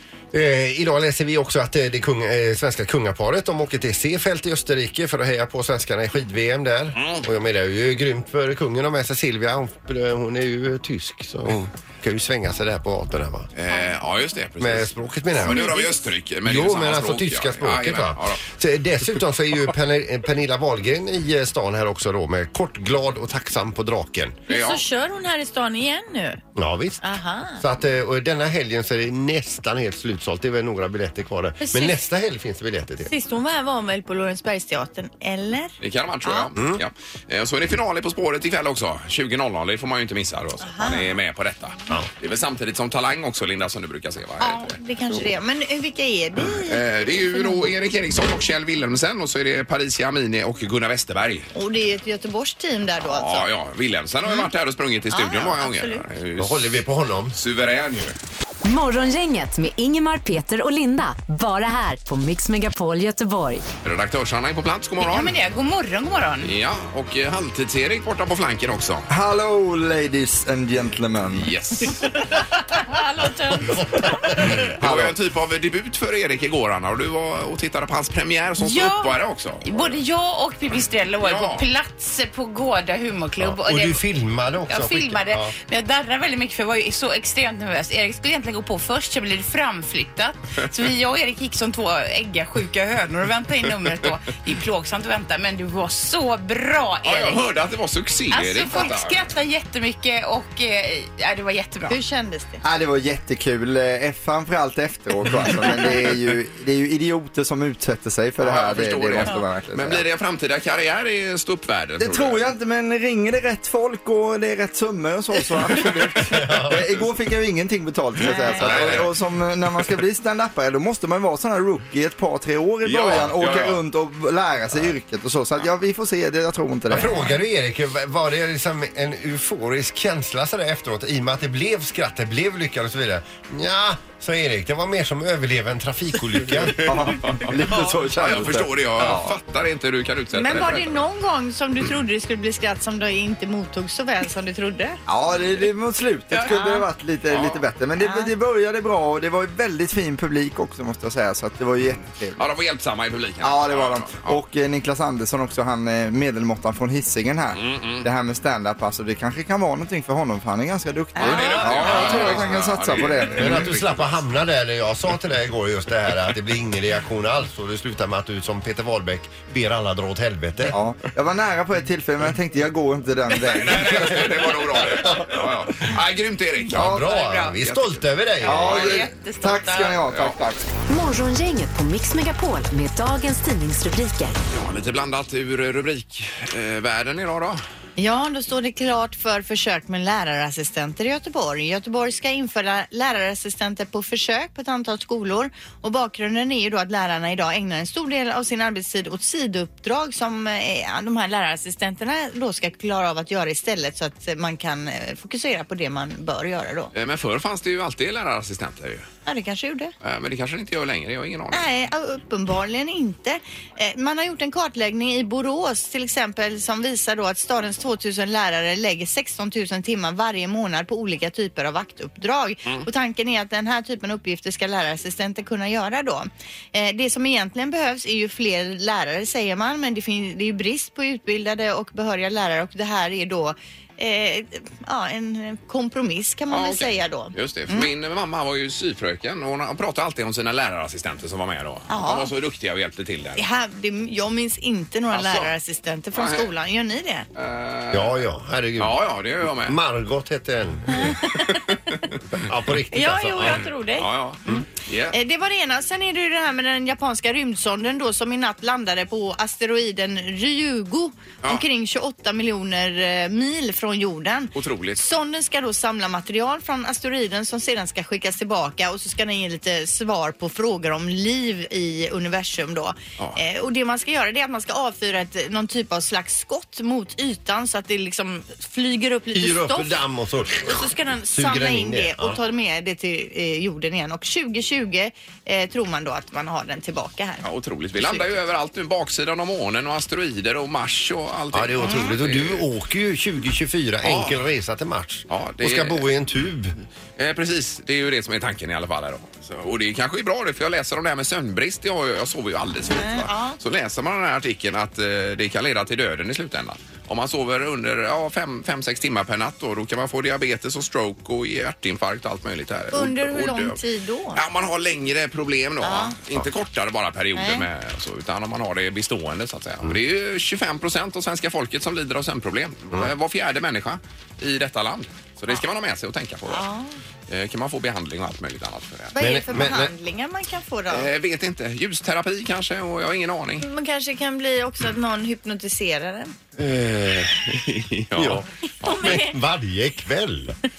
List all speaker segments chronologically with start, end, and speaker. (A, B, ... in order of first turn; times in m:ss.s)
0:00.3-0:13.5 A
0:07.0-0:07.3 B
0:13.6-0:18.4 B
0:14.6-0:15.9 A
0:16.4-0:24.4 A
0:24.5-0:24.8 B
0:24.5-0:26.4 C
0:26.6-0:27.0 A
0:27.0-0:27.6 C
0:27.6-0:33.1 A
0:31.6-0:32.0 C
0:33.1-0:36.5 C
0:35.8-0:44.8 B
0:40.6-0:41.1 C
0:44.4-0:46.8 C
0:46.7-0:51.5 B
0:47.3-0:47.6 C
0:51.5-0:53.5 C
0:53.0-0:56.8 B
0:55.1-0:56.0 C
0:56.4-0:57.4 A
0:57.3-0:58.2 B
0:58.6-1:03.7 D
1:03.8-1:05.4 B
1:05.0-1:06.5 E
1:06.4-1:09.1 B
1:09.1-1:11.5 F
1:11.3-1:12.1 B
1:12.1-1:14.1 C
1:14.6-1:20.0 B
1:14.8-1:15.2 F
1:18.6-1:24.0 E
1:21.2-1:21.7 B
1:23.4-1:25.5 A
1:24.7-1:37.5 E
1:37.0-1:39.3 B
1:38.3-1:42.0 E
1:41.9-1:42.6 C
1:42.6-1:50.0 F
1:48.4-1:52.4 B
1:52.0-2:07.2 F
1:56.3-1:56.9 A
1:58.2-1:58.8 C
1:58.3-1:59.1 B
2:02.8-2:03.8 B
2:06.9-2:16.9 A
2:16.8-2:19.4 F
2:16.9-2:21.0 B
2:20.3-2:25.0 C
2:25.1-2:32.4 F
2:26.5-2:26.8 C
2:27.3-2:27.6 B
2:28.0-2:28.3 C
2:32.4-2:34.4 B
2:33.4-2:43.9 F
2:37.5-2:38.1 B
2:41.2-2:42.4 C
2:41.2-2:44.0 B
2:43.4-2:50.8 A
2:50.7-2:54.3 F
2:53.4-2:59.0 B
2:56.7-2:58.9 A
2:56.8-2:57.1 F
2:57.1-2:57.6 E
2:58.4-3:00.6 F
2:58.5-3:00.0 E
3:00.1-3:00.4 B
3:00.9-3:04.4 D
3:04.5-3:07.6 B
3:08.0-3:26.9 C
3:26.9-3:29.1 B
3:29.3-3:29.9 C
3:30.0-3:31.7 B
3:31.5-3:57.9 C
3:56.5-4:03.4 B
4:01.9-4:02.3 C
4:03.4-4:07.3 C
4:05.1-4:05.5 B
4:06.2-4:06.5 B
4:07.4-4:08.2 B
4:07.9-4:09.0 A
4:08.8-4:09.8 B
4:09.6-4:11.2 A
4:10.9-4:11.6 C
4:11.4-4:12.0 B
4:12.3-4:13.6 A
4:12.9-4:14.1 C
4:13.4-4:15.2 B
4:15.1-4:40.0 C
4:24.5-4:25.0 B
4:39.3-4:42.4 A
4:40.6-4:47.5 C
4:47.4-4:52.7 B
4:48.0-4:48.3 C
4:51.5-4:56.8 A
4:51.8-4:52.1 C
4:54.0-4:54.4 B
4:55.3-4:56.1 B
4:57.2-5:13.8 B
5:03.0-5:03.6 C
5:12.9-5:14.4 C
5:14.4-5:26.6 B
5:15.8-5:16.2 C
5:17.4-5:17.7 C
5:26.5-5:26.9 C
5:27.3-5:29.6 B
5:29.1-5:31.1 C
5:29.2-5:29.9 A
5:30.9-5:33.7 B
5:33.6-5:36.3 C
5:36.6-5:37.5 A
5:37.3-5:39.2 B
5:38.2-5:40.6 A
5:38.8-5:39.4 C